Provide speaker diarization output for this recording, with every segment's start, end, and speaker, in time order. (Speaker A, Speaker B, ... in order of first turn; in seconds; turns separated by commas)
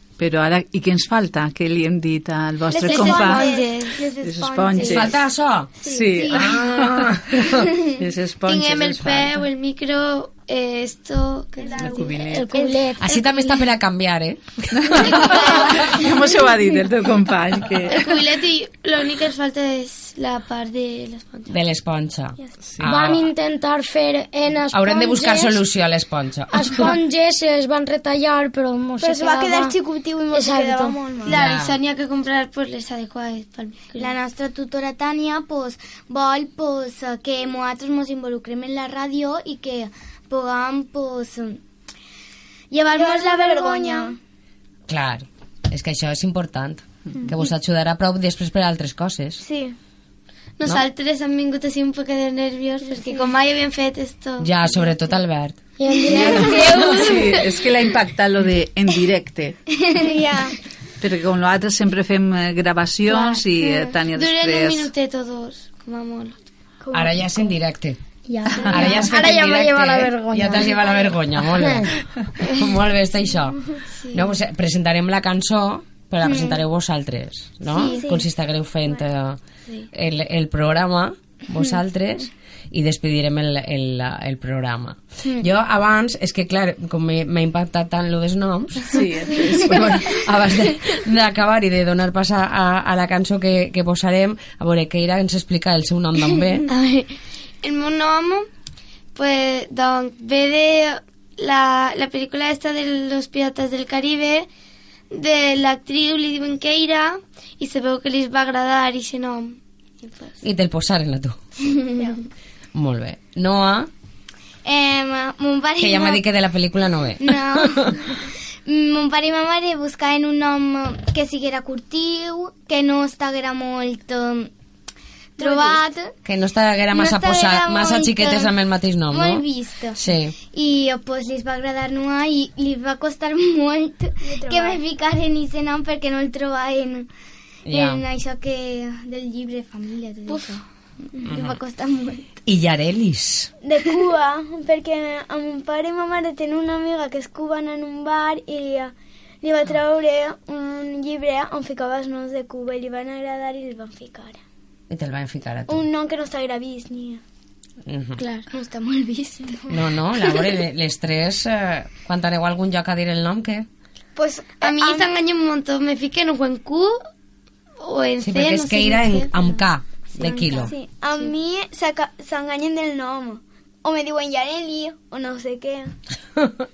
Speaker A: 0.2-3.5, Speaker B: 2.7-5.2, Speaker C: 2.8-4.1, Speaker A: 4.2-5.2, Speaker C: 4.7-5.0, Speaker D: 4.8-7.8, Speaker B: 5.8-6.5, Speaker A: 5.8-9.5, Speaker C: 8.4-12.1, Speaker B: 11.6-12.8, Speaker A: 11.8-12.5, Speaker E: 12.2-13.3, Speaker D: 13.0-15.8, Speaker A: 14.8-18.1, Speaker C: 15.1-16.1, Speaker B: 15.1-16.1, Speaker C: 17.9-21.6, Speaker D: 21.5-23.2, Speaker A: 22.7-23.0, Speaker E: 22.8-25.6, Speaker D: 24.7-26.9, Speaker E: 26.5-29.8, Speaker B: 29.0-31.5, Speaker E: 30.3-31.0, Speaker C: 31.3-34.1, Speaker D: 31.3-31.8, Speaker F: 34.0-41.6, Speaker F: 42.7-44.2, Speaker B: 42.9-44.2, Speaker D: 44.9-49.4, Speaker B: 49.4-49.8, Speaker C: 50.6-54.5, Speaker B: 52.8-53.3, Speaker D: 54.4-57.0, Speaker E: 55.8-56.9, Speaker A: 56.1-59.6, Speaker B: 56.3-57.3, Speaker B: 60.0-60.6, Speaker A: 61.0-64.9, Speaker C: 64.1-66.4, Speaker B: 66.8-67.5, Speaker D: 66.9-68.0, Speaker E: 68.3-71.0, Speaker D: 68.7-79.4, Speaker E: 71.5-71.9, Speaker C: 73.9-74.3, Speaker F: 76.2-76.6, Speaker F: 77.7-78.2, Speaker B: 77.7-78.2, Speaker D: 79.9-96.7, Speaker A: 88.9-90.3, Speaker F: 96.7-97.1, Speaker C: 97.6-98.5, Speaker C: 99.2-104.5, Speaker C: 105.1-110.4, Speaker D: 110.4-111.4, Speaker D: 112.7-113.9, Speaker F: 114.7-116.2, Speaker D: 115.8-118.1, Speaker F: 117.2-117.9, Speaker F: 118.7-124.5, Speaker F: 125.4-126.2, Speaker B: 125.4-125.8, Speaker D: 126.2-129.4, Speaker F: 126.9-128.6, Speaker F: 129.1-137.1, Speaker D: 130.0-130.3, Speaker B: 134.2-134.8, Speaker D: 137.7-138.1, Speaker F: 137.7-140.6, Speaker C: 140.3-140.6, Speaker D: 141.2-141.6, Speaker F: 141.2-142.3, Speaker D: 142.5-143.5, Speaker B: 143.6-154.4, Speaker D: 154.9-155.8, Speaker B: 155.7-157.2, Speaker D: 157.9-158.2, Speaker C: 158.2-158.5, Speaker B: 158.5-159.8, Speaker F: 158.6-159.5, Speaker D: 159.7-163.7, Speaker B: 164.2-165.1, Speaker C: 164.6-167.0, Speaker C: 167.8-171.3, Speaker D: 168.2-170.8, Speaker F: 170.3-170.7, Speaker B: 170.3-175.9